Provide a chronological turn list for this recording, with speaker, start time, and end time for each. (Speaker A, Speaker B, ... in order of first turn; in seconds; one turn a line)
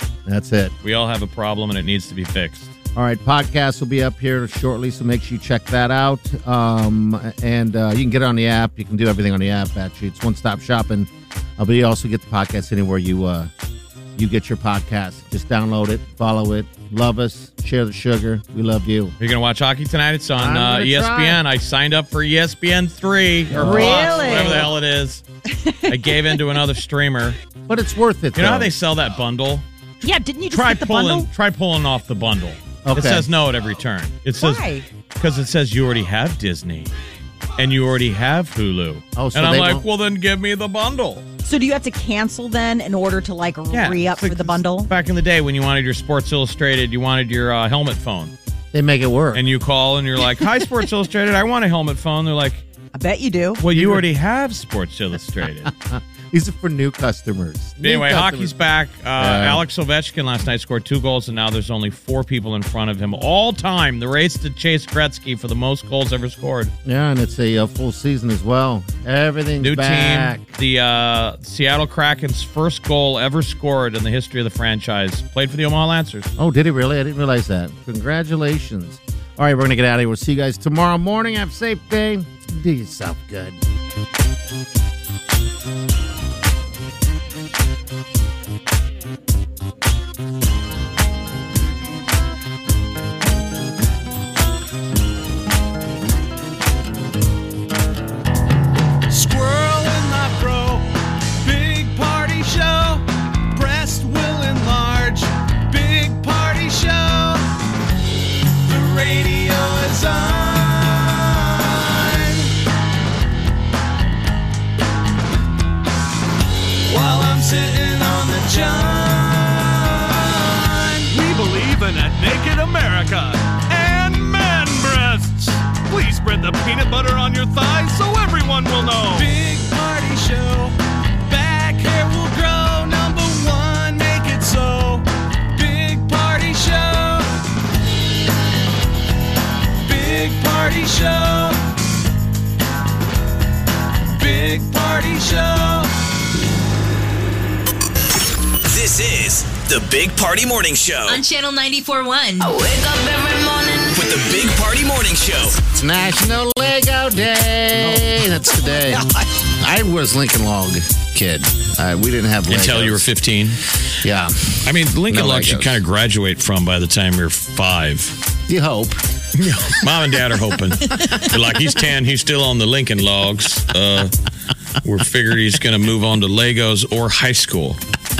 Speaker A: 0.3-0.8
Speaker B: 0.8-2.7
Speaker A: 3.0-13.5
Speaker A: 14.2-19.1
Speaker B: 19.2-25.2
Speaker A: 20.4-21.4
Speaker A: 23.5-24.6
Speaker C: 23.5-24.7
Speaker C: 25.5-26.4
Speaker B: 25.9-27.4
Speaker A: 27.7-28.7
Speaker B: 28.4-29.6
Speaker C: 30.0-31.3
Speaker B: 30.5-36.9
Speaker A: 32.9-33.3
Speaker C: 34.4-34.9
Speaker B: 37.6-41.2
Speaker A: 39.2-39.9
Speaker C: 41.4-44.9
Speaker B: 43.7-48.3
Speaker A: 48.7-49.4
Speaker B: 49.3-52.6
Speaker C: 52.9-53.6
Speaker B: 53.6-55.7
Speaker A: 53.7-54.1
Speaker A: 55.6-58.5
Speaker B: 57.8-66.7
Speaker A: 59.2-59.6
Speaker A: 66.8-70.5
Speaker B: 69.6-76.3
Speaker A: 76.4-83.6
Speaker D: 99.1-100.8
Speaker D: 101.4-107.4
Speaker D: 108.7-112.5
Speaker D: 116.9-121.1
Speaker E: 121.1-129.3
Speaker D: 129.1-130.8
Speaker D: 131.3-137.3
Speaker D: 139.8-141.6
Speaker D: 144.2-145.9
Speaker F: 148.7-151.2
Speaker G: 151.1-153.9
Speaker F: 153.9-155.6
Speaker A: 155.7-159.0
Speaker C: 157.8-158.1
Speaker A: 159.6-163.1
Speaker B: 162.5-163.6
Speaker A: 164.0-165.8
Speaker B: 164.6-168.2
Speaker A: 168.5-169.0
Speaker B: 169.4-174.1
Speaker B: 174.8-177.8